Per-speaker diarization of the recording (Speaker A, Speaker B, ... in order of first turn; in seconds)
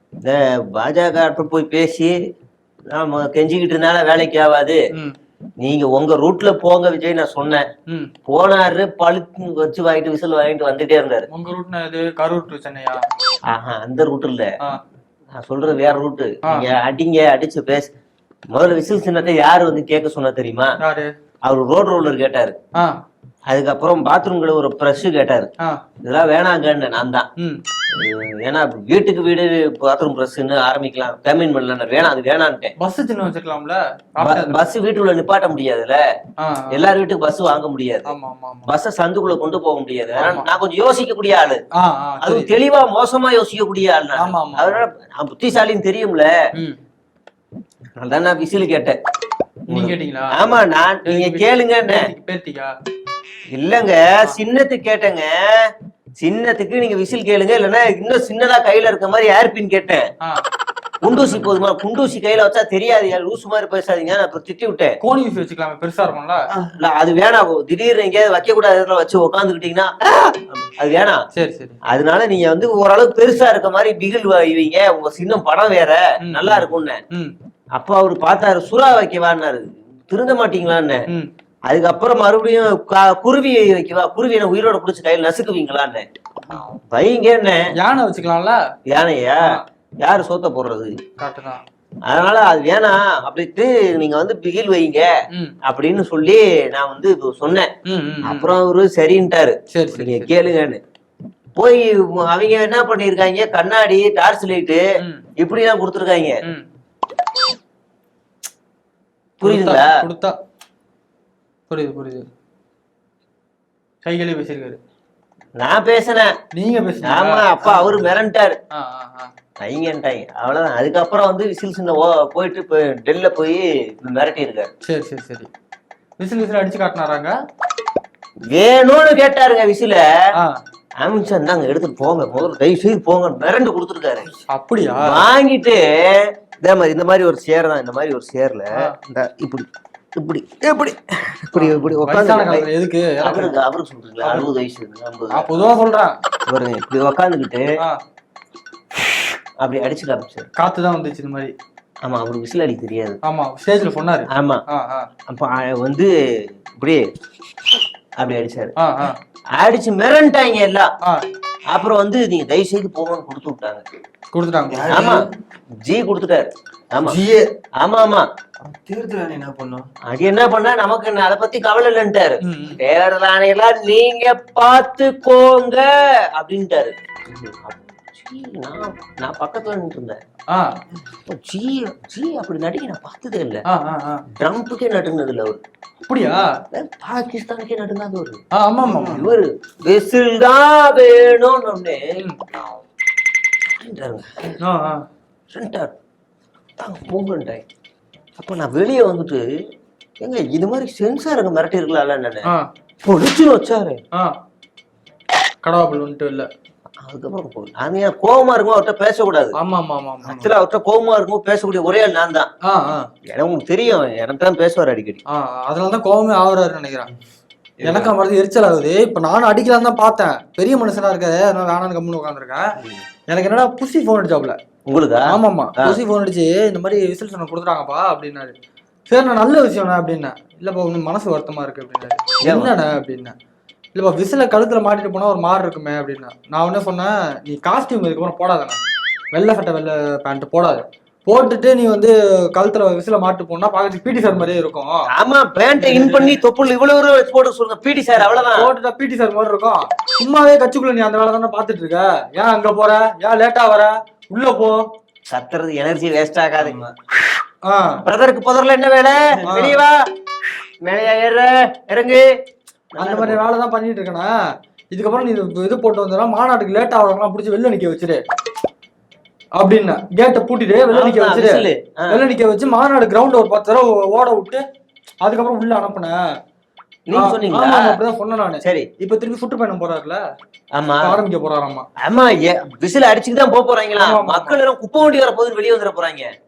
Speaker A: 0.2-2.1, 2.9-4.8, 5.6-7.6, 8.3-11.3, 13.5-14.5, 15.4-17.9, 18.5-20.7, 21.4-22.6, 23.5-25.5, 26.0-27.3, 27.9-32.7, 34.2-36.0, 36.7-38.1, 38.7-41.6, 42.2-46.3, 48.0-49.0, 49.7-52.1, 53.5-55.7, 56.2-60.0, 61.0-65.0, 66.8-71.2, 71.8-77.0, 77.8-81.0, 81.7-86.0, 86.9-87.7, 88.9-91.0, 92.1-95.1, 95.7-97.7, 98.2-100.8, 101.6-104.8, 105.4-106.3, 109.4-109.9, 115.6-116.3, 117.0-118.5, 119.7-124.7, 128.5-130.0, 131.0-134.3, 135.0-142.7, 143.2-145.7, 146.5-147.7, 149.6-150.5, 152.1-153.2, 154.3-154.6, 155.3-156.1, 158.2-158.8, 159.6-160.9, 161.7-163.8, 164.9-165.3, 165.8-167.2, 167.8-168.3, 170.1-180.2, 181.3-183.6, 184.4-185.6, 186.7-192.0, 193.8-194.6, 195.5-195.9, 196.8-197.6, 198.4-199.4, 200.2-202.5, 203.1-204.0, 207.0-209.6, 210.2-212.5, 213.3-215.2, 224.9-226.0, 232.4-232.7, 245.1-248.7, 255.3-256.9, 258.1-260.0, 260.9-262.2, 262.9-263.4, 270.9-272.2, 277.1-278.0, 280.8-281.2, 282.0-286.3
Speaker B: 11.3-13.0, 20.8-21.1, 32.8-34.7, 36.4-36.8, 38.1-38.7, 40.2-40.5, 41.8-42.5, 44.2-44.8, 49.7-52.7, 61.1-61.6, 65.0-66.4, 71.3-71.8, 76.2-77.3, 87.8-88.6, 91.2-91.6, 97.9-98.5, 99.7-100.3, 105.0-105.2, 109.5-110.4, 111.7-112.2, 114.0-114.8, 116.5-118.1, 118.7-119.3, 124.8-125.5, 126.2-127.4, 134.5-135.3, 141.5-143.6, 144.2-144.5, 145.3-146.2, 150.6-151.5, 153.3-155.1, 158.8-159.2, 164.3-165.1, 172.4-172.8, 180.5-180.8, 183.7-184.2, 186.1-186.5, 188.6-189.3, 194.6-195.1, 205.6-206.5, 209.6-210.5, 212.7-213.1, 215.3-217.1, 217.8-222.7, 223.3-224.6, 225.3-228.5, 229.1-233.3, 233.9-238.8, 239.3-245.0, 245.8-246.4, 248.2-254.8, 257.7-258.0, 259.5-259.8, 263.0-264.3, 264.9-268.2, 269.6-274.6, 275.2-276.2, 277.1-280.2, 281.0-281.9, 284.0-284.6
Speaker C: 164.7-165.3, 167.0-167.5, 168.6-169.9